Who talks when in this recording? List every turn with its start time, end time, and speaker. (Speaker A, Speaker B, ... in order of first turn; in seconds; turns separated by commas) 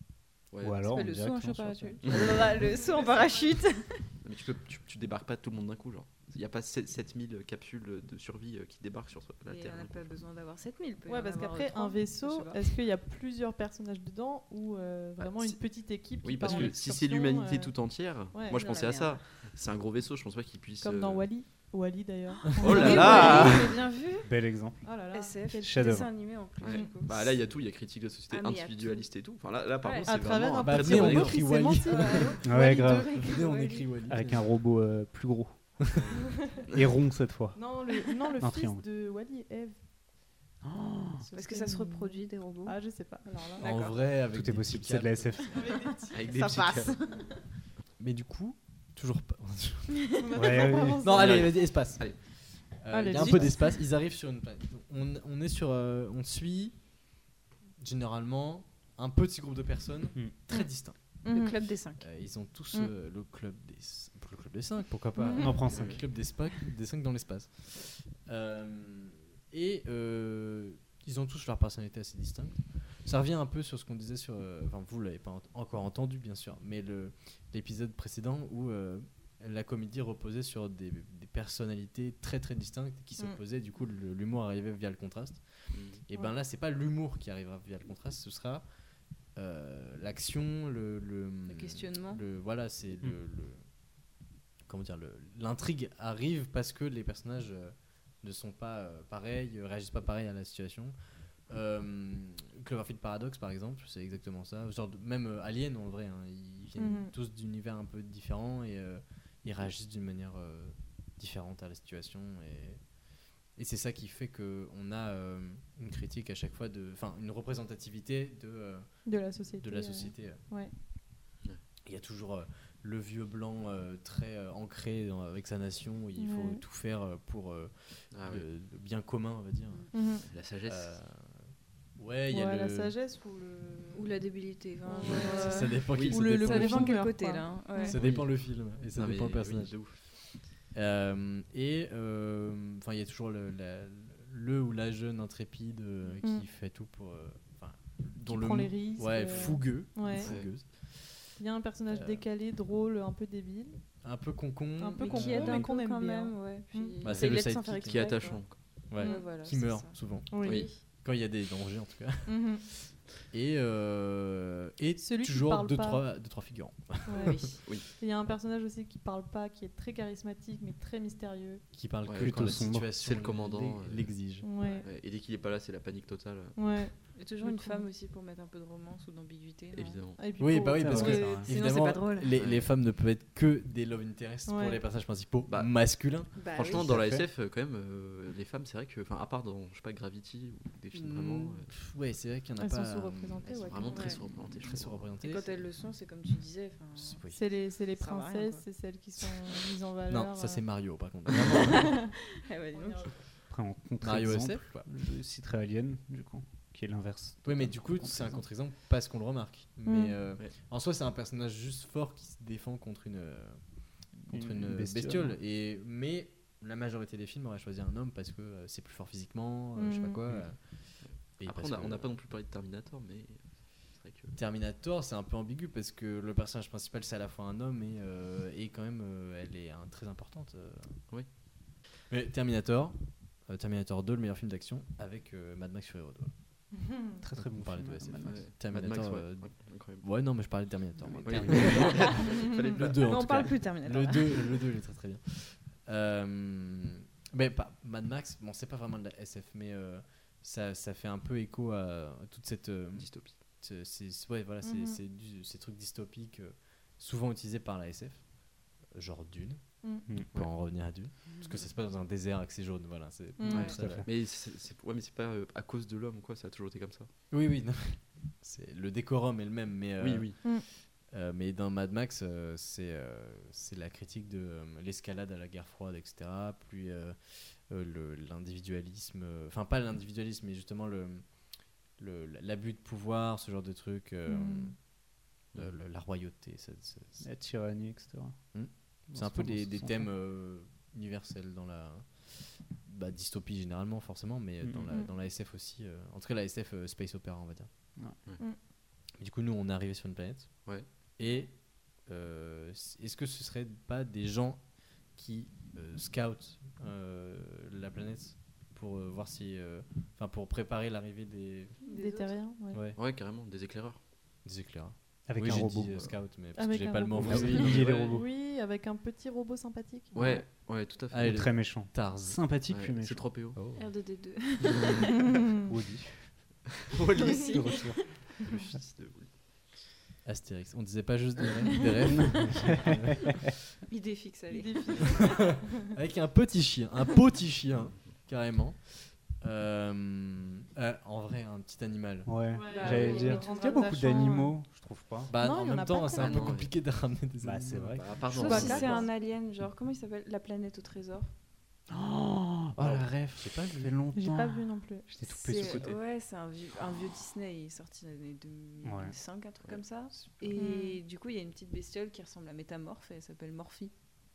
Speaker A: 0.5-1.0, Speaker B: 0.6-2.0, Speaker C: 0.9-4.0, Speaker A: 2.0-2.6, Speaker D: 2.4-3.6, Speaker A: 4.2-10.2, Speaker C: 9.4-12.6, Speaker D: 11.1-17.8, Speaker A: 15.2-21.4, Speaker D: 18.3-18.6, Speaker C: 18.5-19.2, Speaker D: 20.8-23.7, Speaker A: 22.6-23.7, Speaker C: 22.7-24.3, Speaker E: 22.8-23.6, Speaker B: 24.1-26.1, Speaker D: 24.8-25.9, Speaker C: 25.1-27.4, Speaker A: 26.6-31.6, Speaker D: 26.7-27.0, Speaker C: 28.3-29.1, Speaker C: 29.8-30.1, Speaker E: 29.9-32.4, Speaker D: 30.1-32.6, Speaker C: 31.8-33.9, Speaker B: 32.4-33.2, Speaker E: 33.2-34.5, Speaker B: 34.1-35.9, Speaker D: 36.3-36.6, Speaker B: 36.7-37.8, Speaker D: 37.5-39.8, Speaker B: 38.4-38.8, Speaker B: 40.6-41.2, Speaker D: 41.2-43.6, Speaker C: 41.3-42.8, Speaker C: 43.6-44.0, Speaker E: 43.6-45.7, Speaker B: 44.3-45.7, Speaker D: 45.6-46.5, Speaker C: 46.1-47.2, Speaker A: 46.1-47.0, Speaker E: 48.0-50.1, Speaker D: 50.2-51.6, Speaker B: 50.3-51.0, Speaker E: 51.0-52.1, Speaker A: 51.1-52.2, Speaker E: 52.7-56.8, Speaker D: 52.9-53.8, Speaker E: 57.8-61.0, Speaker D: 61.2-61.5, Speaker C: 61.2-62.0, Speaker E: 62.0-88.6, Speaker B: 65.1-66.0, Speaker D: 65.2-65.6, Speaker A: 65.7-66.0, Speaker A: 85.7-86.0, Speaker E: 89.3-93.7, Speaker C: 91.5-92.2, Speaker E: 94.7-100.9, Speaker E: 101.5-112.8, Speaker D: 106.8-107.1, Speaker E: 113.5-120.4, Speaker D: 119.0-120.7, Speaker E: 121.8-130.1, Speaker D: 126.2-126.6, Speaker A: 128.1-128.4, Speaker D: 129.9-130.2, Speaker A: 130.3-130.9, Speaker E: 130.6-132.9, Speaker D: 132.3-134.2, Speaker C: 133.9-138.0, Speaker D: 134.8-137.9, Speaker A: 135.1-135.3, Speaker E: 135.2-137.1, Speaker A: 135.9-136.2, Speaker E: 137.8-151.4, Speaker A: 137.9-140.3, Speaker D: 148.2-150.3, Speaker A: 150.2-150.5, Speaker D: 151.4-153.8, Speaker E: 151.9-152.2, Speaker E: 154.0-155.7, Speaker D: 154.8-157.0, Speaker C: 155.0-160.8, Speaker E: 157.0-158.1, Speaker A: 157.1-158.9, Speaker E: 158.7-167.6, Speaker D: 158.9-159.3, Speaker D: 160.3-160.7, Speaker A: 160.4-160.7, Speaker D: 162.2-162.6, Speaker D: 165.0-166.0, Speaker D: 167.1-171.6, Speaker C: 167.2-167.5, Speaker A: 167.6-167.9, Speaker E: 171.7-174.5, Speaker A: 172.0-174.3, Speaker B: 172.2-172.9, Speaker D: 174.4-174.9, Speaker C: 174.6-174.9, Speaker A: 174.8-176.6, Speaker D: 176.6-177.9, Speaker C: 177.1-180.0, Speaker A: 179.7-180.3, Speaker D: 180.2-181.5, Speaker E: 180.4-187.0, Speaker B: 180.8-181.4, Speaker C: 180.9-182.3, Speaker A: 182.3-182.7, Speaker D: 184.5-184.8, Speaker A: 185.4-191.7, Speaker C: 186.3-186.8, Speaker B: 186.7-187.2, Speaker E: 190.9-193.8, Speaker D: 192.6-194.3, Speaker A: 193.4-195.1, Speaker C: 193.9-194.2, Speaker E: 194.4-195.5, Speaker C: 195.2-198.6, Speaker E: 196.9-197.4, Speaker D: 197.3-200.6, Speaker E: 200.1-202.1, Speaker D: 201.6-203.1, Speaker C: 202.4-203.1, Speaker B: 203.5-208.4, Speaker E: 204.0-204.9, Speaker E: 207.4-222.1, Speaker D: 209.8-210.2, Speaker B: 214.3-215.4, Speaker D: 219.8-220.2, Speaker A: 221.0-224.4, Speaker E: 224.3-231.0, Speaker E: 232.1-236.3, Speaker D: 236.9-237.2, Speaker B: 237.2-238.4, Speaker E: 237.3-258.3, Speaker A: 238.2-240.1, Speaker B: 241.2-242.1, Speaker A: 241.2-243.5, Speaker C: 243.0-244.4, Speaker A: 252.9-253.4, Speaker D: 254.6-255.0, Speaker E: 258.9-264.1, Speaker D: 259.8-260.1, Speaker D: 263.4-263.7, Speaker A: 263.5-267.1, Speaker B: 263.7-264.1, Speaker E: 267.3-284.9, Speaker A: 270.0-270.4, Speaker D: 284.3-284.7, Speaker E: 285.5-287.2, Speaker B: 287.2-290.1, Speaker E: 288.5-297.7, Speaker B: 294.6-294.9, Speaker E: 299.2-311.8, Speaker A: 300.6-301.1, Speaker C: 311.8-312.4, Speaker D: 311.9-312.8, Speaker E: 312.7-313.0, Speaker A: 312.9-314.0, Speaker E: 314.4-318.1, Speaker B: 315.3-316.1, Speaker A: 315.6-316.1, Speaker D: 316.5-320.1, Speaker B: 317.2-318.2, Speaker A: 317.4-318.0, Speaker A: 320.1-321.4, Speaker E: 321.1-322.5, Speaker B: 321.2-323.9, Speaker A: 322.7-323.6, Speaker C: 323.7-325.1, Speaker B: 325.5-326.6, Speaker A: 326.9-329.3, Speaker C: 327.1-327.9, Speaker B: 327.5-328.2, Speaker E: 330.2-333.4, Speaker B: 332.1-333.1, Speaker C: 333.9-335.4, Speaker D: 334.5-335.6, Speaker E: 335.2-342.4, Speaker B: 342.2-345.3, Speaker D: 342.5-344.6, Speaker C: 342.7-344.3, Speaker E: 345.3-348.0, Speaker D: 345.3-346.6, Speaker A: 346.1-346.7, Speaker B: 347.4-348.1, Speaker A: 347.9-349.1, Speaker C: 348.3-351.3, Speaker D: 348.3-349.1, Speaker B: 351.9-355.9, Speaker E: 352.8-354.0, Speaker D: 354.1-355.1, Speaker C: 355.2-363.9, Speaker B: 358.8-359.1, Speaker D: 360.6-361.0